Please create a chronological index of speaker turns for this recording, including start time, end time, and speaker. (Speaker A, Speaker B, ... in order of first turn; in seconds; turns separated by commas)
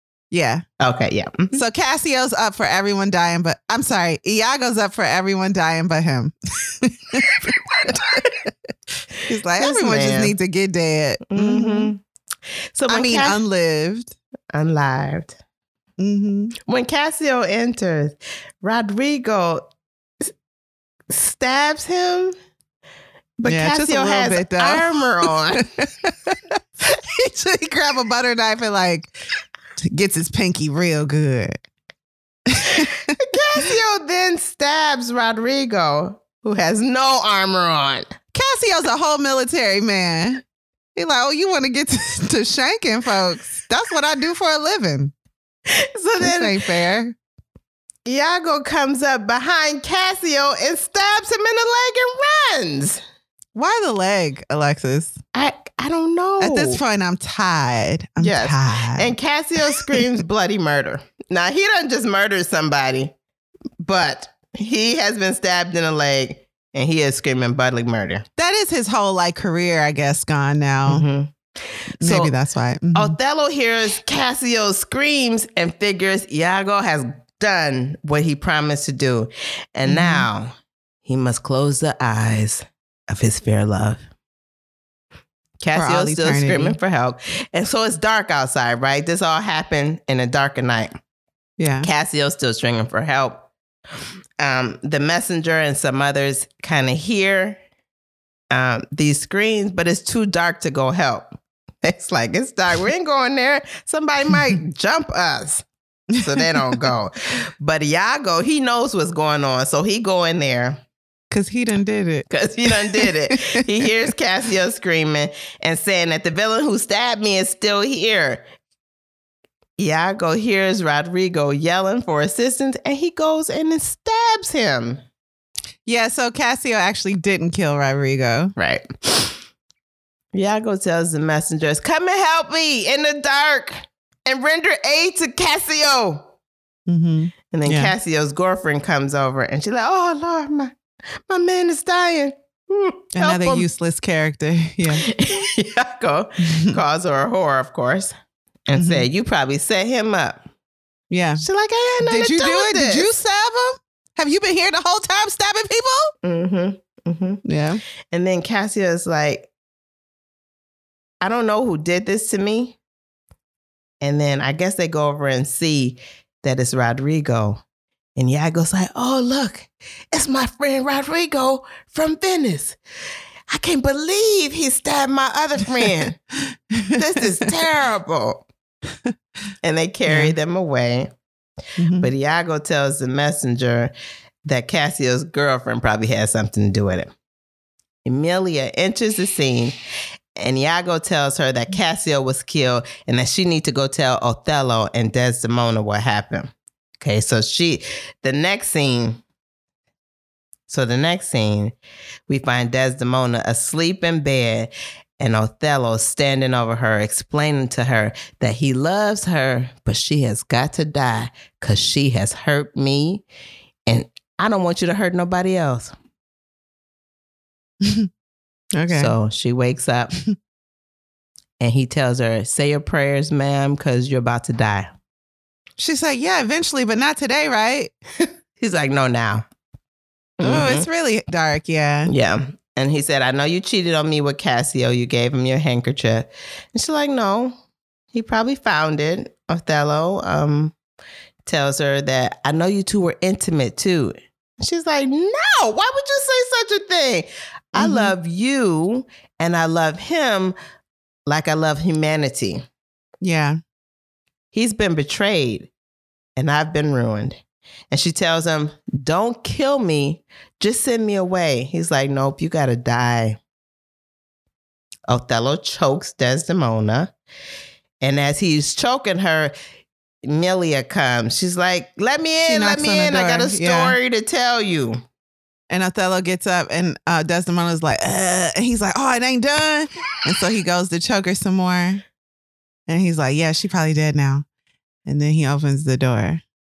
Speaker A: 0.3-0.6, Speaker B: 0.8-1.6, Speaker A: 1.5-8.5, Speaker B: 7.3-8.3, Speaker A: 9.2-11.9, Speaker B: 9.6-10.3, Speaker B: 11.3-12.0, Speaker B: 12.7-13.4, Speaker A: 12.9-14.2, Speaker B: 14.5-15.4, Speaker A: 16.0-16.5, Speaker B: 16.6-19.7, Speaker B: 21.1-22.3, Speaker B: 23.4-25.6, Speaker A: 23.4-29.1, Speaker A: 29.8-31.6, Speaker A: 32.5-33.2, Speaker B: 33.2-38.1, Speaker A: 38.3-40.4, Speaker A: 41.0-45.1, Speaker B: 45.7-46.6, Speaker A: 46.2-47.1, Speaker B: 48.0-53.0, Speaker A: 53.5-55.2, Speaker B: 55.3-56.8, Speaker A: 56.4-59.1, Speaker B: 58.2-63.1, Speaker A: 59.7-60.0, Speaker B: 63.8-68.2, Speaker A: 68.4-71.0, Speaker B: 70.9-72.3, Speaker A: 72.0-73.2, Speaker B: 72.9-80.5, Speaker A: 79.8-80.2, Speaker B: 81.0-84.0, Speaker B: 85.6-90.9, Speaker A: 85.7-86.8, Speaker A: 91.6-91.9, Speaker B: 91.8-93.5, Speaker B: 94.4-97.6, Speaker B: 98.5-101.3, Speaker B: 101.8-105.7, Speaker B: 106.2-110.8, Speaker A: 111.3-113.6, Speaker B: 112.3-118.4, Speaker B: 119.8-125.0, Speaker A: 125.8-128.5, Speaker B: 128.6-129.3, Speaker B: 130.3-136.3, Speaker A: 136.9-137.9, Speaker B: 137.5-140.7, Speaker B: 141.3-143.7, Speaker A: 143.2-145.1, Speaker B: 145.0-148.1, Speaker A: 146.4-146.8, Speaker B: 148.7-150.4, Speaker A: 148.8-149.1, Speaker A: 151.1-151.4, Speaker B: 151.4-153.1, Speaker A: 152.0-156.1, Speaker B: 156.2-157.4, Speaker A: 157.4-157.8, Speaker B: 158.1-159.5, Speaker B: 161.2-162.8, Speaker B: 164.0-167.6, Speaker B: 168.2-172.8, Speaker B: 173.5-176.2, Speaker A: 176.4-177.5, Speaker B: 176.9-178.4, Speaker B: 179.6-181.1, Speaker A: 180.1-180.3, Speaker A: 181.8-182.1, Speaker B: 182.0-183.9, Speaker B: 184.4-187.1, Speaker B: 188.0-189.7, Speaker B: 190.4-199.2, Speaker B: 200.7-201.7, Speaker B: 202.3-213.2, Speaker B: 213.9-215.9, Speaker A: 217.8-218.1, Speaker A: 218.8-219.1, Speaker B: 218.9-220.1, Speaker B: 221.6-224.9, Speaker A: 225.8-227.9, Speaker B: 228.6-229.4, Speaker B: 230.4-230.8, Speaker A: 230.4-232.1, Speaker B: 232.1-237.6, Speaker B: 238.1-240.8, Speaker B: 241.4-250.5, Speaker A: 247.8-248.1, Speaker B: 251.3-252.6, Speaker A: 253.2-253.6, Speaker B: 254.5-255.7, Speaker B: 256.4-263.4, Speaker B: 265.1-267.1, Speaker B: 268.0-269.5, Speaker B: 270.2-275.0, Speaker A: 272.4-274.0, Speaker A: 275.7-282.0, Speaker A: 282.9-284.4, Speaker A: 285.1-286.4